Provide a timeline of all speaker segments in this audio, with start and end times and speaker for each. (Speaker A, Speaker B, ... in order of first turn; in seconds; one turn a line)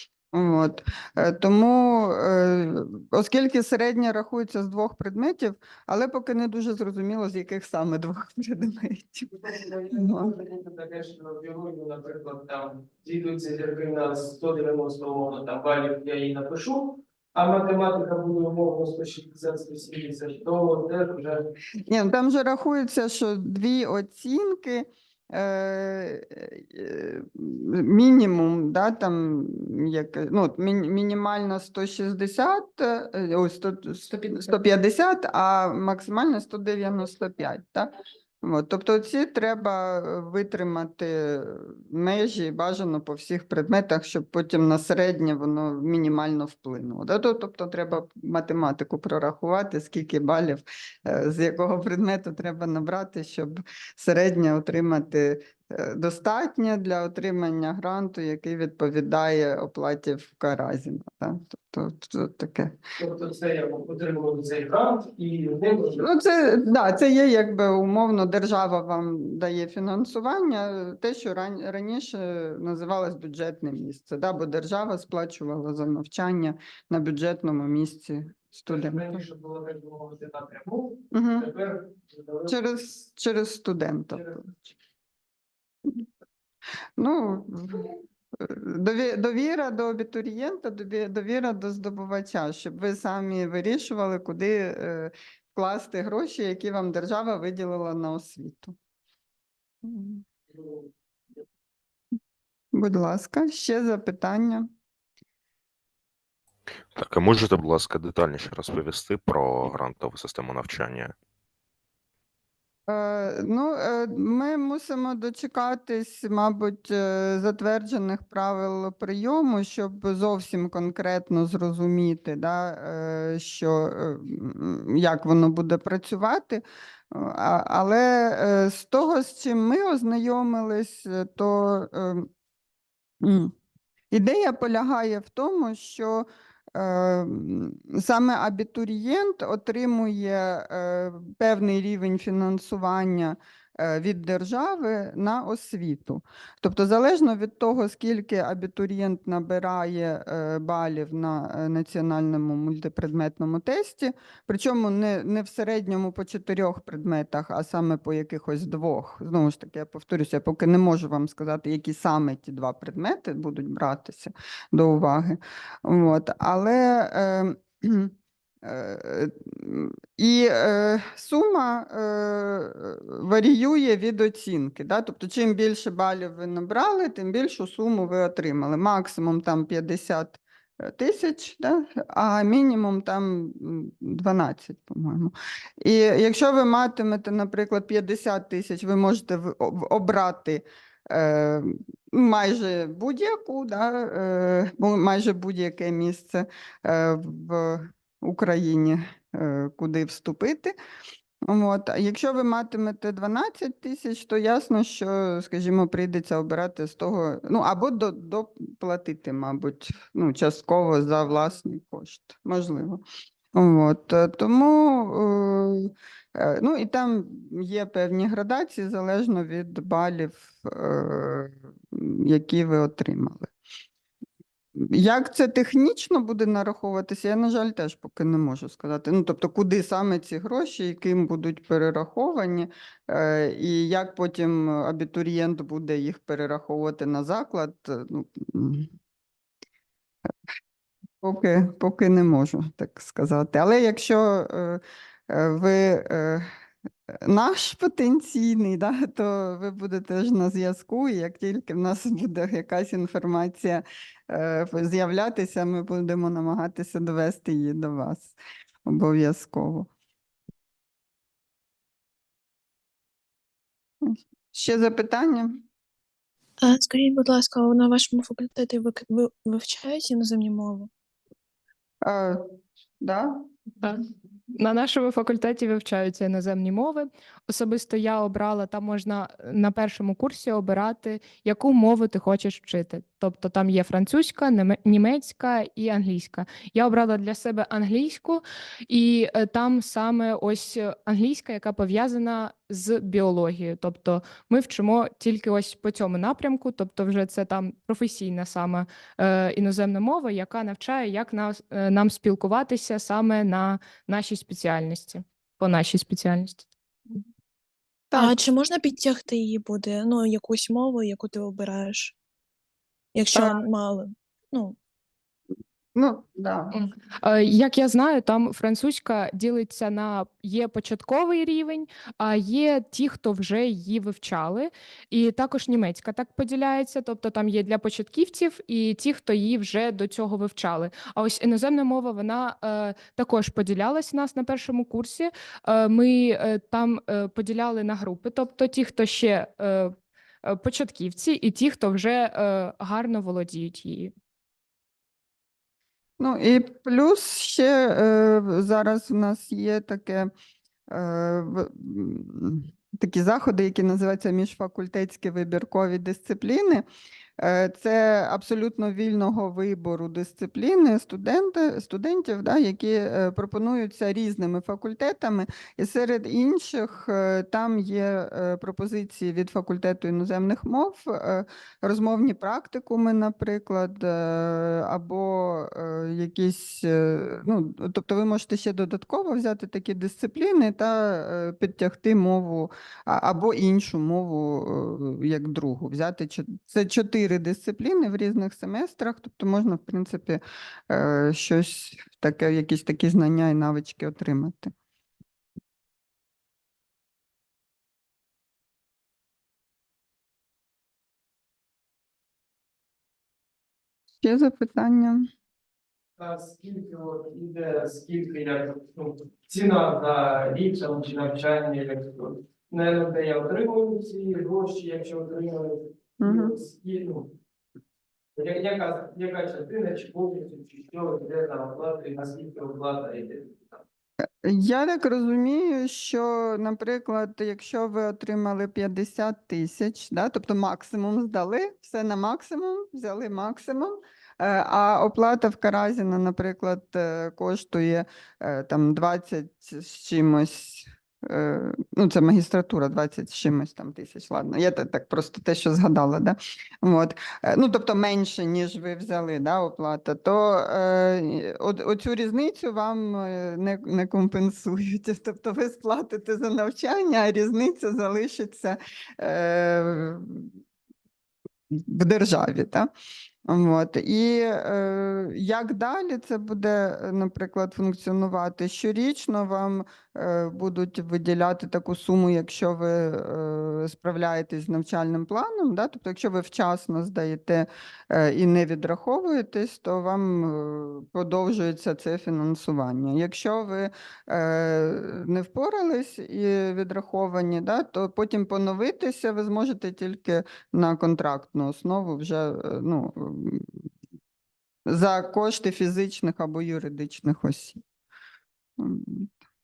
Speaker A: 0.3-10.4
Speaker B: 9.6-21.5
Speaker A: 21.9-62.8
Speaker C: 34.1-34.4
Speaker B: 63.0-66.1
Speaker A: 66.0-79.2
Speaker B: 78.7-82.6
Speaker A: 81.1-81.5
Speaker A: 82.5-84.5
Speaker B: 84.1-84.7
Speaker A: 87.0-98.8
Speaker A: 99.8-100.2
Speaker A: 102.7-104.7
Speaker D: 106.9-111.1
Speaker A: 112.9-132.3
Speaker A: 133.2-133.5
Speaker A: 134.1-200.7
Speaker A: 201.4-213.0
Speaker A: 213.5-223.5
Speaker A: 224.8-238.9
Speaker A: 241.2-246.5
Speaker A: 247.1-258.3
Speaker A: 258.9-259.9
Speaker A: 264.0-265.6
Speaker E: 266.6-270.9
Speaker A: 272.0-272.4
Speaker A: 273.0-273.4
Speaker C: 273.8-306.7
Speaker E: 308.1-312.1
Speaker E: 313.1-314.8
Speaker A: 315.9-316.7
Speaker C: 316.7-344.1
Speaker A: 346.2-350.3
Speaker A: 350.9-356.8
Speaker A: 357.4-394.7
Speaker A: 404.2-405.3
Speaker B: 406.2-417.4
Speaker A: 416.2-416.5
Speaker B: 418.4-423.8
Speaker A: 424.4-460.5
Speaker A: 461.7-462.9
Speaker A: 463.4-493.9
Speaker A: 494.9-497.8
Speaker A: 498.8-499.3